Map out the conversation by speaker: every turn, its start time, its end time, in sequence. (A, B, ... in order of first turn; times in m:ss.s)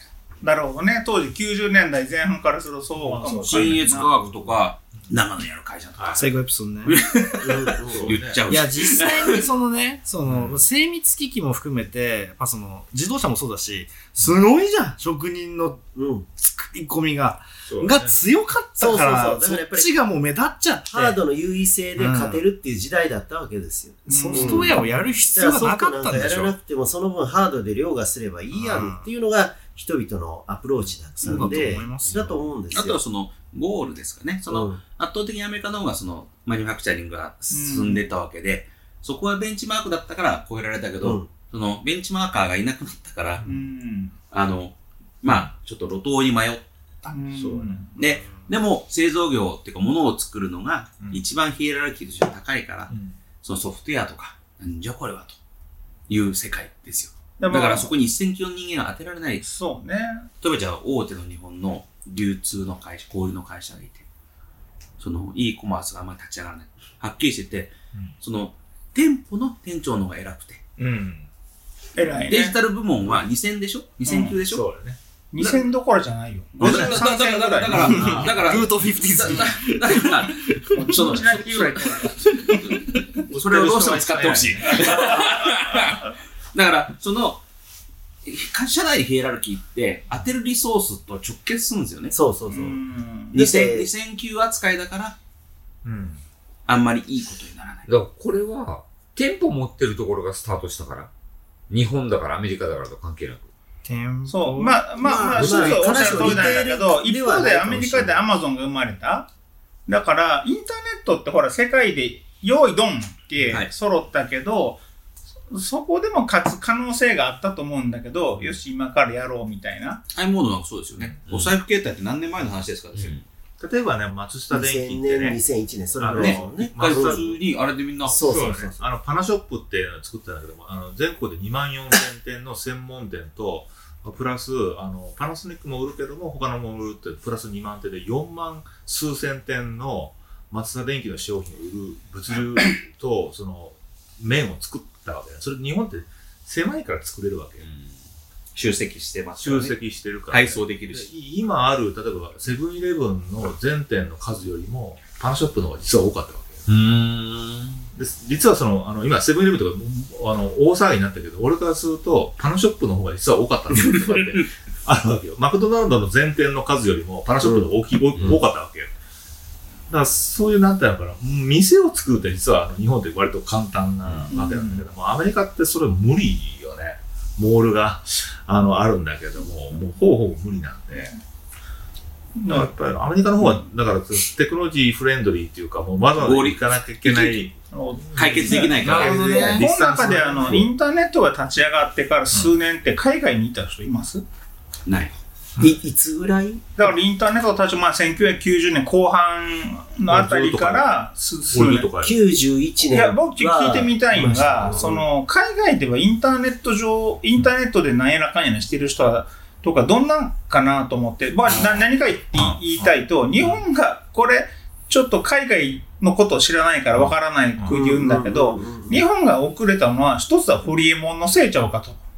0:00.4-0:04.1 A
0:03.0-0:04.4 B
0:03.2-0:03.5 C
0:03.2-0:06.3 D
0:06.0-0:06.3 B
0:06.1-0:07.0 C
0:06.8-0:09.4 D
0:07.4-0:08.1 E
0:07.7-0:08.5 B
0:08.4-0:21.2 C
0:10.2-0:10.6 B
0:15.9-0:16.2 E
0:17.7-0:18.1 B
0:18.8-0:19.9 E
0:20.9-0:24.8 E
0:22.0-0:22.4 C
0:24.1-0:24.7 A
0:24.1-0:26.5 C
0:25.3-0:33.0 E
0:28.5-0:29.1 C
0:31.2-0:32.5 C
0:32.7-0:43.4 D
0:34.5-0:34.8 E
0:37.5-0:38.0 A
0:41.0-0:41.3 E
0:43.4-0:44.1 A
0:44.3-0:46.6 D
0:47.0-0:47.9 A
0:47.4-0:47.9 B
0:48.0-0:52.9 D
0:52.9-0:53.2 B
0:53.4-0:55.4 D
0:56.1-0:59.4 D
0:57.4-0:57.9 A
0:59.4-1:00.3 A
1:00.4-1:04.0 D
1:05.0-1:10.6 D
1:10.8-1:11.3 B
1:11.9-1:12.6 A
1:12.3-1:14.6 D
1:14.0-1:14.4 A
1:14.4-1:15.0 B
1:15.3-1:18.2 A
1:16.6-1:21.5 D
1:16.6-1:16.9 B
1:17.7-1:18.4 B
1:17.8-1:22.8 C
1:20.7-1:22.6 A
1:22.6-1:27.4 D
1:23.3-1:25.2 B
1:28.2-1:32.2 D
1:32.1-1:32.8 E
1:32.5-1:33.4 A
1:33.3-1:33.9 E
1:33.3-1:35.2 D
1:35.8-1:36.2 B
1:36.7-1:37.9 D
1:37.8-1:41.1 F
1:41.7-1:43.5 F
1:43.8-1:45.7 C
1:44.3-1:49.3 A
1:45.0-1:48.2 E
1:49.9-1:54.8 A
1:55.5-2:00.0 A
2:00.1-2:03.2 D
2:01.0-2:01.3 B
2:03.6-2:05.4 B
2:04.5-2:07.2 E
2:06.0-2:07.4 B
2:06.1-2:08.2 D
2:08.1-2:08.8 E
2:08.1-2:27.7 B
2:28.5-2:29.8 D
2:29.4-2:36.7 B
2:30.3-2:31.1 D
2:36.7-2:37.8 F
2:37.9-2:48.9 B
2:43.9-2:44.4 D
2:49.9-3:01.1 B
2:54.3-2:54.8 A
3:02.4-3:02.7 A
3:02.5-3:07.6 B
3:06.2-3:07.5 D
3:07.7-3:14.2 A
3:08.1-3:10.7 B
3:08.1-3:09.6 D
3:08.8-3:09.7 C
3:14.8-3:15.2 D
3:15.6-3:16.9 E
3:16.8-3:21.9 A
3:20.1-3:20.9 B
3:21.5-3:22.2 B
3:22.0-3:25.0 E
3:22.9-3:42.0 A
3:32.3-3:33.6 B
3:37.7-3:39.0 E